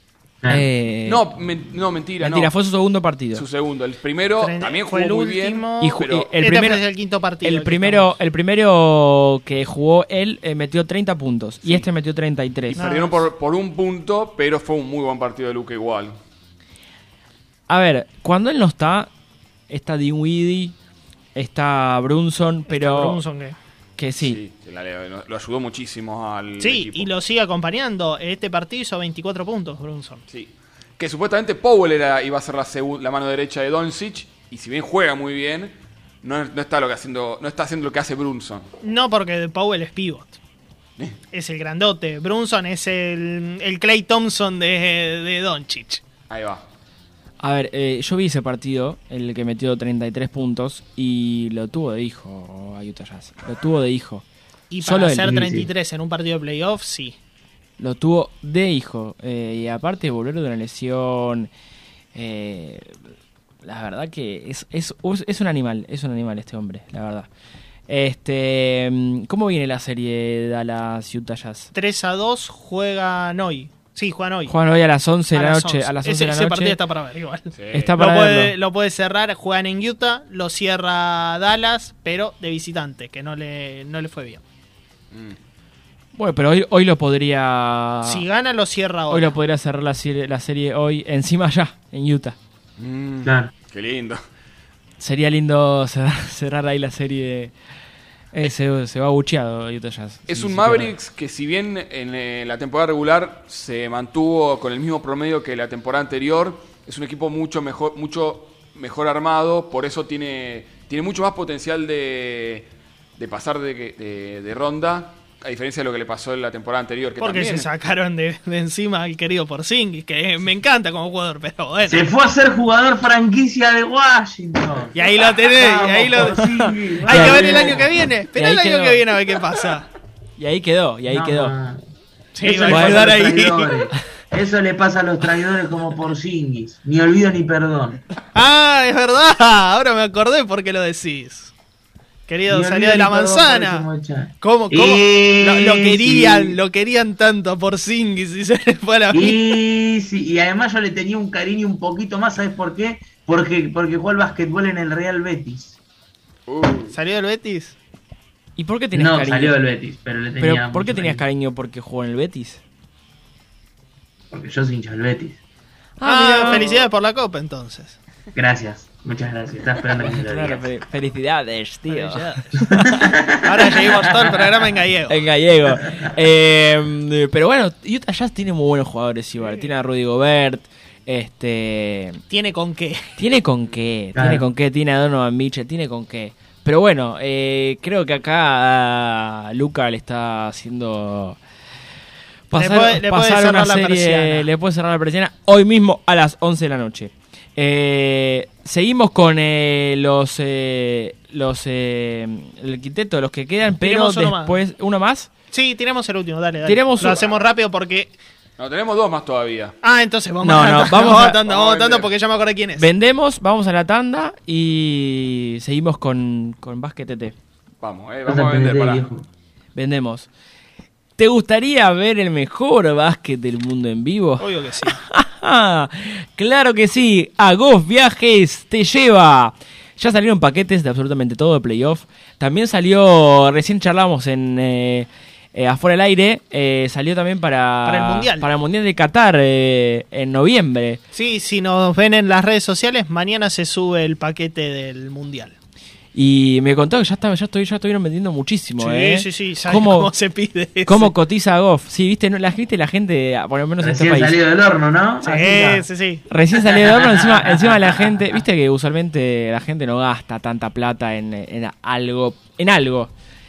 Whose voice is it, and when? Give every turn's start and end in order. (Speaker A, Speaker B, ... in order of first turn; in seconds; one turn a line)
Speaker A: 0.5-1.2
Speaker B: 1.1-2.5
Speaker A: 2.2-3.4
Speaker B: 3.3-6.3
Speaker C: 4.4-8.1
Speaker A: 5.8-6.8
Speaker A: 7.4-12.8
Speaker B: 12.7-16.2
Speaker C: 12.8-13.2
Speaker A: 17.7-19.1
Speaker A: 19.7-20.7
Speaker A: 21.3-23.2
Speaker C: 22.7-23.6
Speaker A: 24.0-24.4
Speaker B: 24.2-27.1
Speaker C: 26.6-30.2
Speaker B: 30.3-38.7
Speaker C: 38.8-40.4
Speaker C: 41.3-46.0
Speaker B: 46.3-46.6
Speaker A: 47.4-54.2
Speaker C: 54.7-57.1
Speaker A: 54.8-55.4
Speaker D: 55.2-55.7
Speaker A: 57.8-61.5
Speaker A: 62.1-63.0
Speaker A: 63.6-67.3
Speaker A: 67.9-71.7
Speaker C: 71.7-74.5
Speaker A: 74.5-76.8
Speaker C: 75.3-84.4
Speaker B: 77.5-77.9
Speaker A: 77.7-78.5
Speaker B: 85.1-85.4
Speaker A: 86.1-88.2
Speaker C: 88.0-89.3
Speaker A: 89.1-92.4
Speaker B: 92.8-94.2
Speaker D: 93.2-93.5
Speaker A: 95.0-97.5
Speaker A: 98.3-100.9
Speaker B: 100.3-117.7
Speaker C: 117.2-122.0
Speaker D: 121.8-125.0
Speaker C: 124.9-126.4
Speaker D: 125.5-127.9
Speaker A: 126.4-127.8
Speaker C: 127.0-129.9
Speaker A: 128.3-129.0
Speaker A: 130.4-131.5
Speaker D: 131.1-131.9
Speaker C: 132.3-133.7
Speaker D: 132.4-138.0
Speaker A: 132.7-133.3
Speaker C: 138.3-141.5
Speaker C: 142.3-143.8
Speaker D: 142.5-146.6
Speaker C: 144.4-149.4
Speaker D: 149.1-155.8
Speaker B: 156.5-156.9
Speaker C: 156.9-157.8
Speaker A: 158.6-159.6
Speaker D: 158.9-161.2
Speaker A: 160.4-162.6
Speaker D: 164.3-165.4
Speaker A: 166.0-166.7
Speaker C: 166.0-168.0
Speaker D: 168.3-170.7
Speaker A: 170.0-173.1
Speaker C: 171.9-172.5
Speaker D: 172.9-174.5
Speaker C: 173.4-175.2
Speaker A: 175.1-182.2
Speaker C: 182.3-183.1
Speaker A: 183.2-191.4
Speaker D: 184.1-184.4
Speaker A: 192.5-205.3
Speaker C: 192.5-194.5
Speaker C: 203.8-204.6
Speaker C: 205.5-208.1
Speaker A: 206.6-207.2
Speaker B: 208.6-209.8
Speaker C: 209.8-212.9
Speaker A: 210.4-211.4
Speaker B: 211.4-212.1
Speaker A: 212.8-217.3
Speaker B: 217.8-219.1
Speaker D: 218.2-219.2
Speaker A: 219.7-220.3
Speaker A: 221.2-241.0
Speaker C: 224.4-225.0
Speaker C: 237.8-238.5
Speaker C: 241.1-245.5
Speaker A: 246.1-250.1
Speaker C: 248.8-251.1
Speaker A: 250.8-254.4
Speaker D: 253.8-255.8
Speaker C: 255.2-256.2
Speaker A: 256.3-263.1
Speaker D: 256.7-257.9